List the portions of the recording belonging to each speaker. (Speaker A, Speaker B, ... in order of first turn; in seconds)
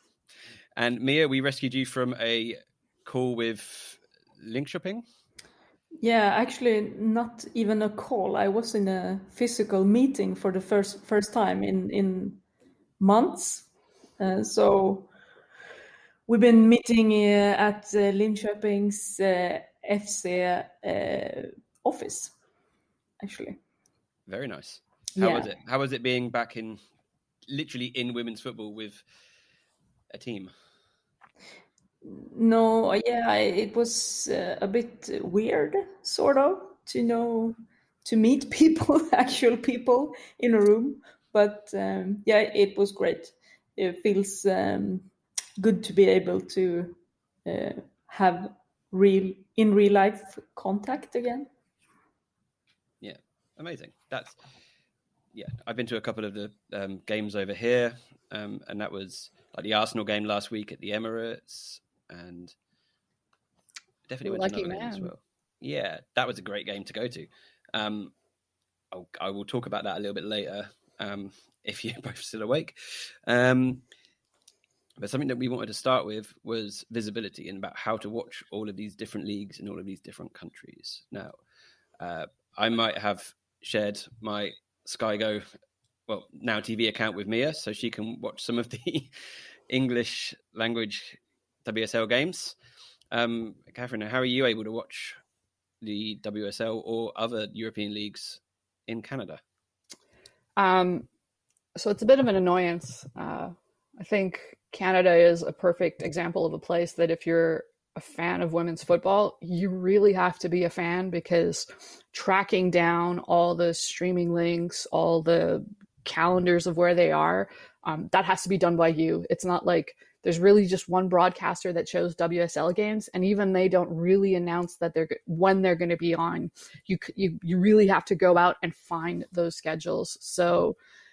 Speaker A: 0.8-5.0, 24.3-26.8, 27.5-29.0, 30.1-30.5, 53.0-54.4, 55.3-62.5, 64.1-68.1, 68.9-73.8, 75.0-81.4, 82.0-85.4, 86.1-89.1, 89.7-92.5, 93.1-95.2, 95.8-99.4
Speaker B: 6.0-12.4, 13.0-13.7, 14.2-15.1, 16.3-22.3, 23.2-23.6, 25.2-25.5, 32.0-51.5
Speaker C: 64.2-65.1, 100.6-101.1, 101.8-130.8